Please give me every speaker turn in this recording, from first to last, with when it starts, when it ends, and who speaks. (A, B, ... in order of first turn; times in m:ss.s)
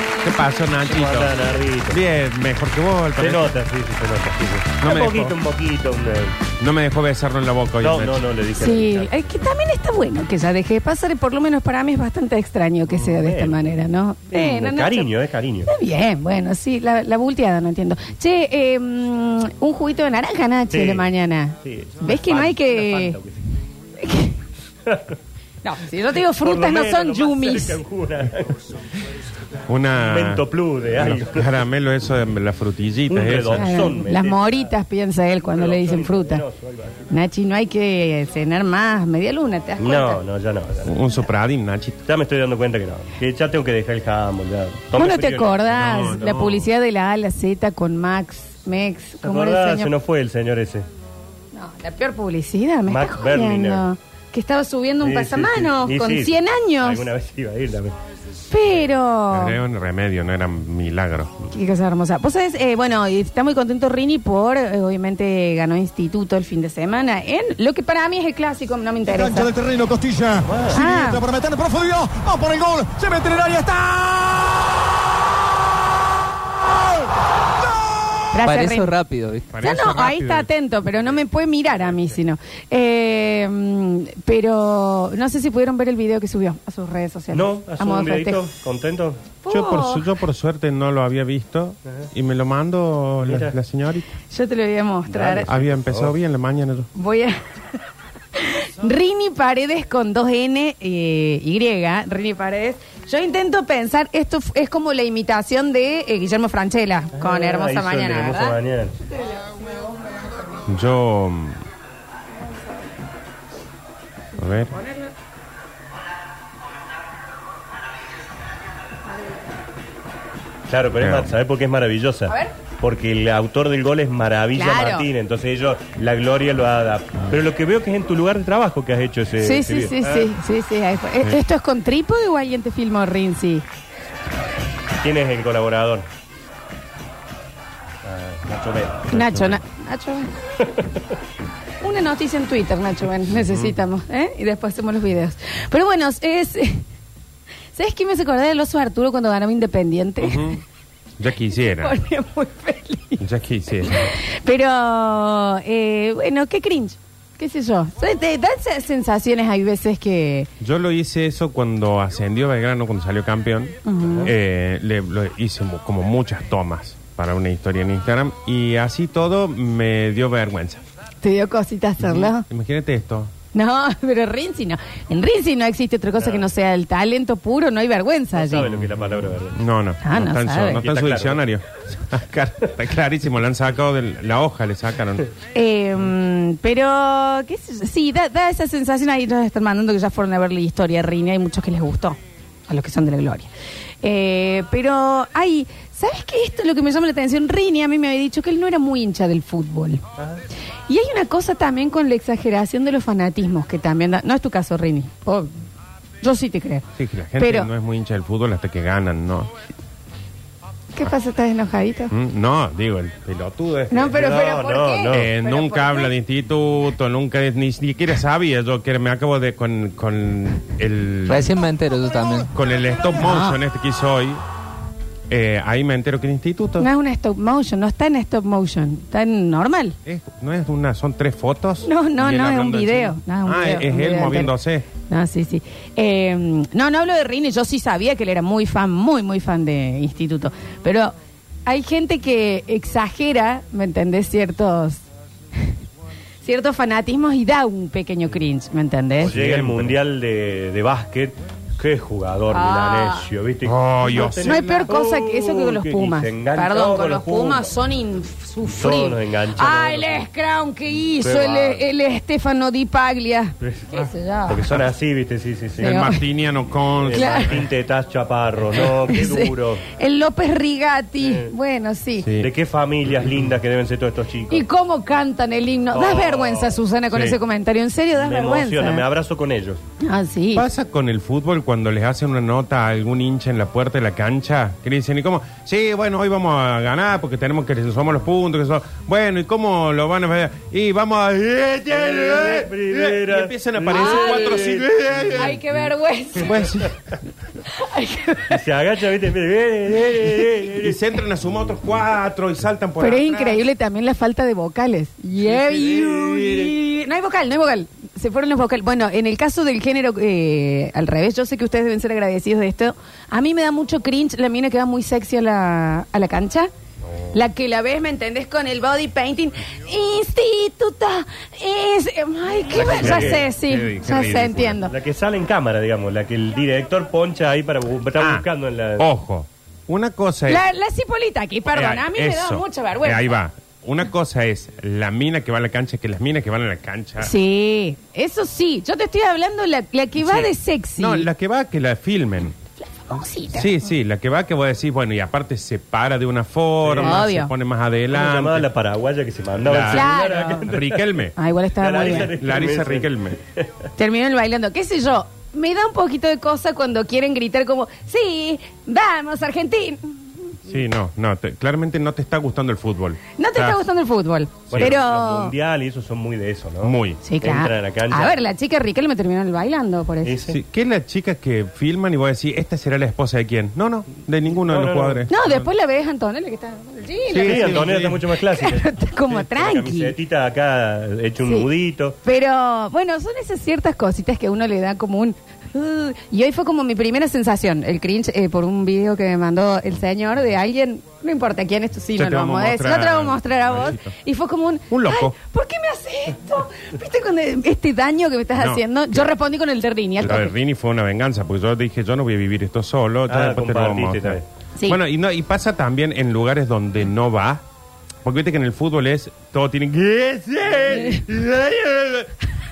0:00.2-0:01.4 A
0:00.8-0:02.0 B
0:01.9-0:03.5 A
0:03.2-0:06.4 B
0:04.8-0:05.4 A
0:06.6-0:08.2 A
0:07.8-0:09.3 B
0:08.6-0:15.1 C
0:12.9-0:13.6 B
0:14.3-0:15.7 B
0:15.7-0:23.2 C
0:20.7-0:21.1 B
0:21.6-0:23.4 B
0:24.0-0:24.4 C
0:24.8-0:25.2 B
0:25.6-0:27.8 C
0:26.4-0:28.6 B
0:29.7-0:30.4 A
0:30.0-0:31.5 B
0:31.0-0:33.7 A
0:33.1-0:34.6 B
0:33.6-0:36.4 C
0:35.5-0:37.1 B
0:37.1-0:40.2 C
0:39.8-0:40.9 B
0:40.8-0:42.0 A
0:42.0-0:46.1 B
0:44.9-0:49.9 C
0:45.7-0:46.7 A
0:49.2-0:50.9 B
0:51.5-0:57.0 C
0:52.9-0:53.9 B
0:55.0-0:57.9 B
0:58.5-0:59.6 C
0:59.3-1:01.4 A
1:01.5-1:09.5 C
1:09.1-1:14.9 D
1:10.5-1:10.7 B
1:10.7-1:11.2 C
1:17.6-1:18.2 D
1:18.3-1:18.9 C
1:18.4-1:19.5 E
1:19.5-1:20.5 A
1:19.6-1:28.5 C
1:27.3-1:29.2 B
1:29.4-1:30.1 C
1:29.5-1:34.1 A
1:33.2-1:33.5 B
1:34.3-1:35.5 C
1:35.1-1:36.1 B
1:35.5-1:36.9 A
1:36.9-1:37.4 C
1:38.3-1:48.6 C
1:47.1-1:48.9 B
1:50.7-1:51.6 A
1:54.3-1:54.7 A
1:54.7-1:55.1 C
2:00.7-2:10.3 B
2:01.0-2:01.4 A
2:04.5-2:05.1 C
2:09.4-2:13.6 C
2:15.0-2:16.1 B
2:18.0-2:19.1 B
2:19.1-2:20.3 C
2:19.1-2:19.6 A
2:21.8-2:26.8 C
2:23.4-2:23.7 A
2:27.7-2:30.6 C
2:30.2-2:30.6 A
2:31.2-2:32.0 A
2:31.8-2:33.2 C
2:33.2-2:34.1 A
2:33.8-2:40.5 C
2:40.6-2:50.8 A
2:43.8-2:44.3 C
2:51.2-2:52.4 C
2:52.0-2:53.3 A
2:53.5-2:58.7 C
2:58.3-2:59.6 B
2:59.0-3:05.2 A
3:00.0-3:00.8 C
3:00.8-3:01.4 B
3:05.5-3:13.5 C
3:14.0-3:20.0 C
3:20.9-3:25.5 C
3:26.2-3:26.8 C
3:27.0-3:29.5 A
3:27.4-3:27.7 C
3:30.9-3:32.1 C
3:32.1-3:34.2 A
3:33.9-3:36.1 C
3:34.1-3:35.3 B
3:35.1-3:41.5 A
3:41.3-3:42.5 E
3:42.5-3:44.4 A
3:43.2-3:43.6 C
3:45.3-3:46.9 A
3:46.8-3:50.0 C
3:50.0-3:54.9 A
3:51.8-4:01.1 C
4:01.6-4:05.0 C
4:06.4-4:09.3 C
4:09.2-4:10.0 A
4:09.2-4:17.7 B
4:12.5-4:13.2 C
4:13.6-4:14.9 A
4:14.4-4:24.7 C
4:18.6-4:20.2 B
4:21.2-4:21.8 B
4:23.6-4:23.9 B
4:24.5-4:26.0 B
4:25.8-4:27.7 A
4:25.8-4:26.2 C
4:27.0-4:29.8 B
4:27.1-4:27.6 C
4:29.0-4:32.3 C
4:31.2-4:31.5 B
4:32.2-4:32.5 A
4:32.4-4:34.6 B
4:34.5-4:39.0 C
4:35.9-4:37.4 B
4:38.2-4:39.8 B
4:40.0-4:40.6 C
4:40.5-4:55.6 A
4:52.0-4:55.5 B
4:53.9-4:56.7 C
4:56.4-4:57.0 A
4:57.7-4:58.6 C
4:58.5-5:01.0 B
5:00.6-5:03.6 A
5:03.0-5:16.7 C
5:05.4-5:06.7 A
5:17.3-5:24.9 C
5:22.7-5:23.4 B
5:22.8-5:24.8 A
5:24.8-5:29.1 B
5:28.2-5:28.4 A
5:29.0-5:30.6 A
5:30.5-5:33.3 C
5:31.7-5:37.3 A
5:37.2-5:41.3 C
5:40.2-5:42.6 A
5:42.9-5:43.8 C
5:43.5-5:48.6 A
5:46.8-5:47.2 B
5:47.0-5:47.5 C
5:48.1-5:51.2 B
5:49.6-5:51.4 A
5:49.9-5:50.6 C
5:51.4-5:52.3 C
5:51.8-5:53.7 B
5:52.2-5:53.4 A
5:54.0-6:00.5 C
6:00.6-6:03.8 A
6:03.4-6:05.5 C
6:04.7-6:05.0 A
6:04.7-6:08.4 B
6:06.8-6:07.2 A
6:07.2-6:10.4 C
6:10.2-6:10.6 B
6:10.5-6:15.7 A
6:14.5-6:15.3 B
6:15.3-6:20.1 C
6:17.3-6:18.2 A
6:17.4-6:22.2 B
6:22.2-6:40.5 C
6:32.1-6:34.1 A
6:34.9-6:35.3 A
6:38.6-6:39.3 A
6:40.2-6:47.6 A
6:43.3-6:44.4 B
6:48.2-6:52.3 A
6:51.0-6:51.2 C